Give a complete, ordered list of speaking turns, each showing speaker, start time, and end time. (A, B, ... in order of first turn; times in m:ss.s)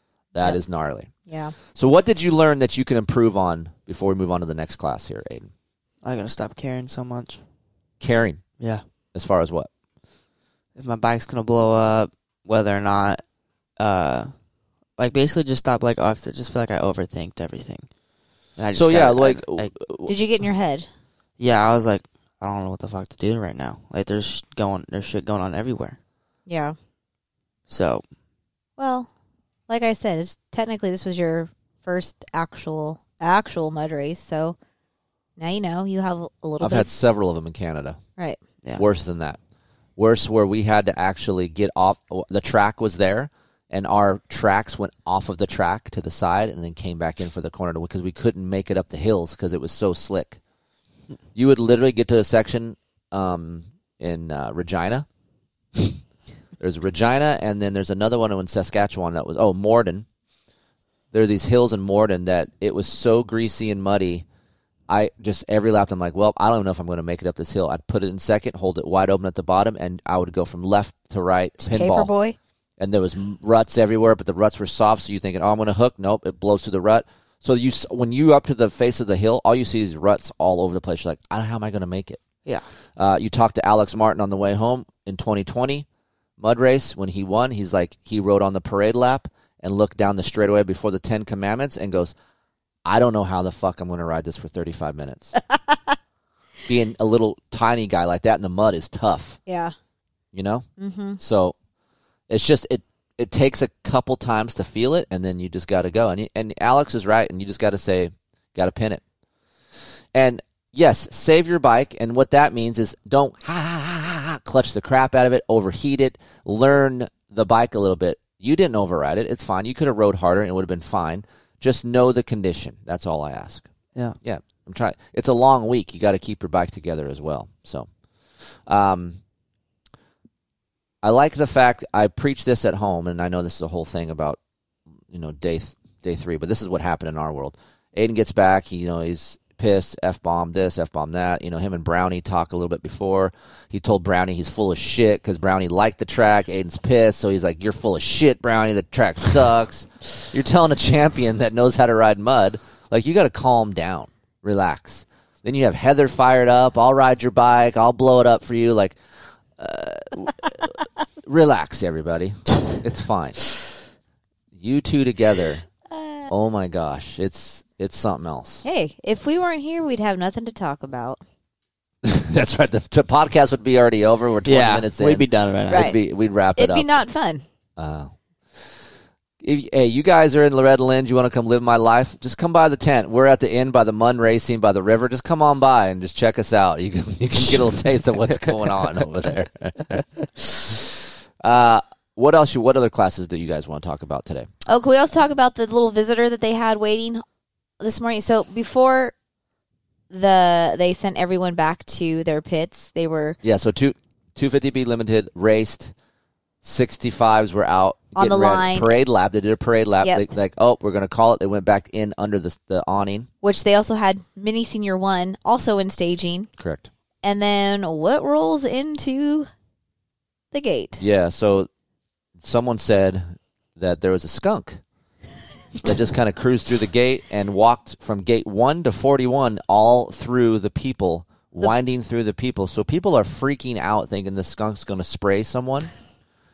0:00.3-0:01.1 A
0:01.3-0:01.5 B
0:01.7-0:05.5 A
0:06.0-0:07.4 C
0:08.0-0:08.4 A
0:09.1-0:09.7 A
0:10.8-0:13.2 C
0:13.8-0:14.3 C
0:15.0-0:17.9 C
0:18.6-0:19.7 C
0:18.7-0:20.1 A
0:20.1-0:20.9 B
0:21.4-0:26.0 C
0:26.5-0:26.8 B
0:27.7-0:28.0 C
0:28.8-0:29.1 B
0:29.7-0:34.6 B
0:35.4-0:36.9 B
0:36.6-0:38.0 A
0:38.8-0:39.4 A
0:40.0-0:50.4 A
0:51.3-0:55.0 A
0:56.6-1:00.0 A
1:01.1-1:04.2 A
1:04.9-1:12.1 A
1:11.6-1:12.4 B
1:12.8-1:22.2 A
1:23.0-1:25.8 A
1:26.4-1:32.1 A
1:32.8-1:35.3 A
1:35.5-1:35.9 B
1:36.6-1:39.4 A
1:39.5-1:39.7 B
1:40.3-1:40.6 A
1:40.8-1:41.2 B
1:41.2-1:41.5 A
1:42.3-1:49.0 A
1:50.1-2:03.6 A
2:04.2-2:07.9 A
2:08.7-2:09.2 A
2:11.0-2:14.4 A
2:15.1-2:39.0 A
2:39.6-2:43.4 A
2:44.6-2:45.6 A
2:45.9-2:46.3 B
2:46.3-2:48.6 A
2:48.6-2:51.2 B
2:52.0-2:56.9 A
2:54.4-2:55.9 C
2:55.7-2:56.0 B
2:56.6-2:57.4 B
2:57.8-2:58.1 A
2:59.4-3:14.5 A
3:14.6-3:17.2 B
3:17.8-3:19.1 B
3:20.1-3:23.4 B
3:23.4-3:25.9 A
3:26.6-3:33.3 A
3:28.2-3:28.9 B
3:33.4-3:36.5 B
3:36.6-3:36.9 A
3:37.2-3:39.5 B
3:40.5-3:41.0 B
3:41.0-3:41.7 A
3:42.4-3:44.8 A
3:45.8-3:55.9 A